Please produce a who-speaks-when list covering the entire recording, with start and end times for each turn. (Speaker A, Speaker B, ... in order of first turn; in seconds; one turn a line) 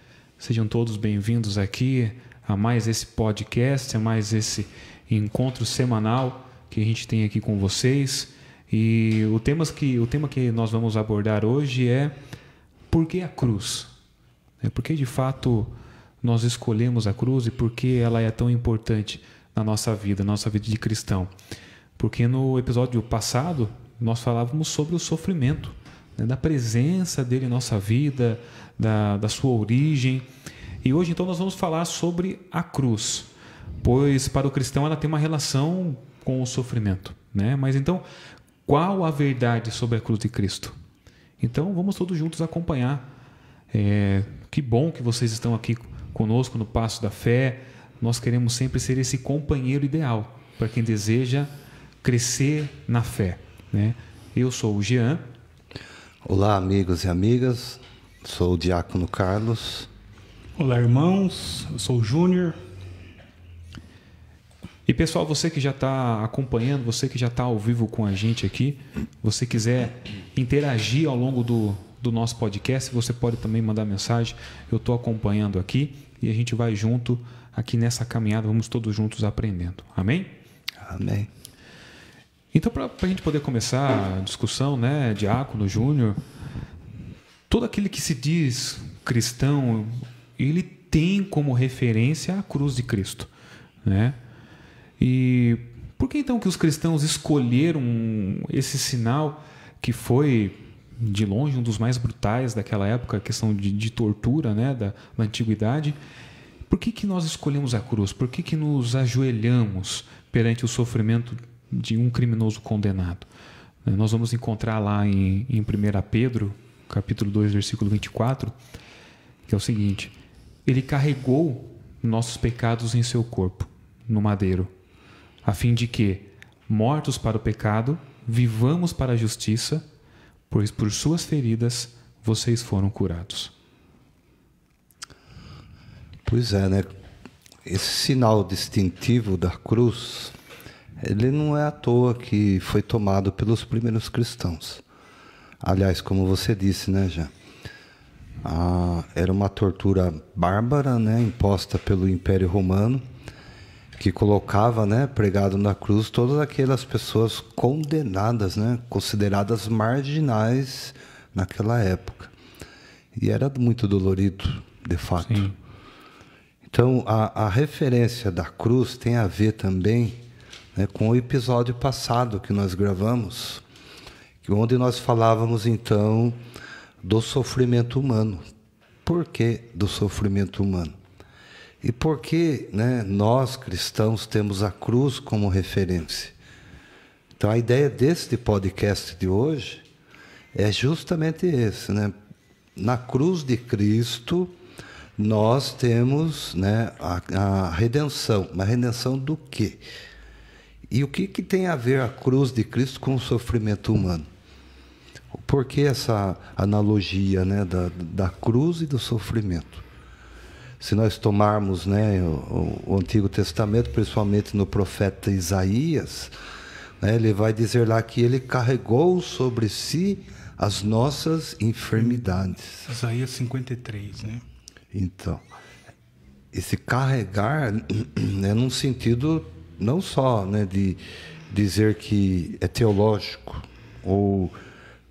Speaker A: 0.4-12.2
Speaker A: 12.9-13.9
Speaker A: 14.6-21.3
Speaker A: 22.0-30.3
Speaker A: 30.8-38.0
Speaker A: 38.7-40.8
Speaker A: 41.4-43.1
Speaker A: 43.7-51.5
Speaker A: 52.0-55.2
Speaker B: 56.2-59.9
Speaker C: 60.6-62.6
Speaker A: 64.9-80.3
Speaker B: 80.8-81.3
Speaker A: 82.5-86.2
Speaker A: 87.5-93.3
Speaker A: 93.8-94.2
Speaker A: 95.0-106.0
Speaker A: 106.7-113.3
Speaker A: 113.8-118.5
Speaker A: 119.5-120.1
Speaker A: 120.7-124.7
Speaker A: 125.4-129.9
Speaker A: 130.5-133.5
Speaker B: 136.3-136.9
Speaker B: 137.7-140.3
Speaker B: 141.0-144.8
Speaker B: 145.6-147.3
Speaker B: 148.4-153.1
Speaker B: 154.0-162.3
Speaker B: 163.1-165.5
Speaker A: 165.2-165.6
Speaker B: 166.7-170.2
Speaker B: 170.8-173.6
Speaker B: 174.4-176.4
Speaker B: 177.0-178.4
Speaker B: 179.1-181.0
Speaker B: 181.8-186.3
Speaker B: 187.4-189.9
Speaker B: 190.5-192.1
Speaker B: 192.8-194.5
Speaker B: 195.2-199.8
Speaker B: 200.9-204.3
Speaker B: 205.3-209.8
Speaker B: 210.8-216.3
Speaker B: 217.0-222.9
Speaker C: 222.9-224.4
Speaker B: 224.9-225.4
Speaker B: 226.5-231.0
Speaker B: 231.5-234.6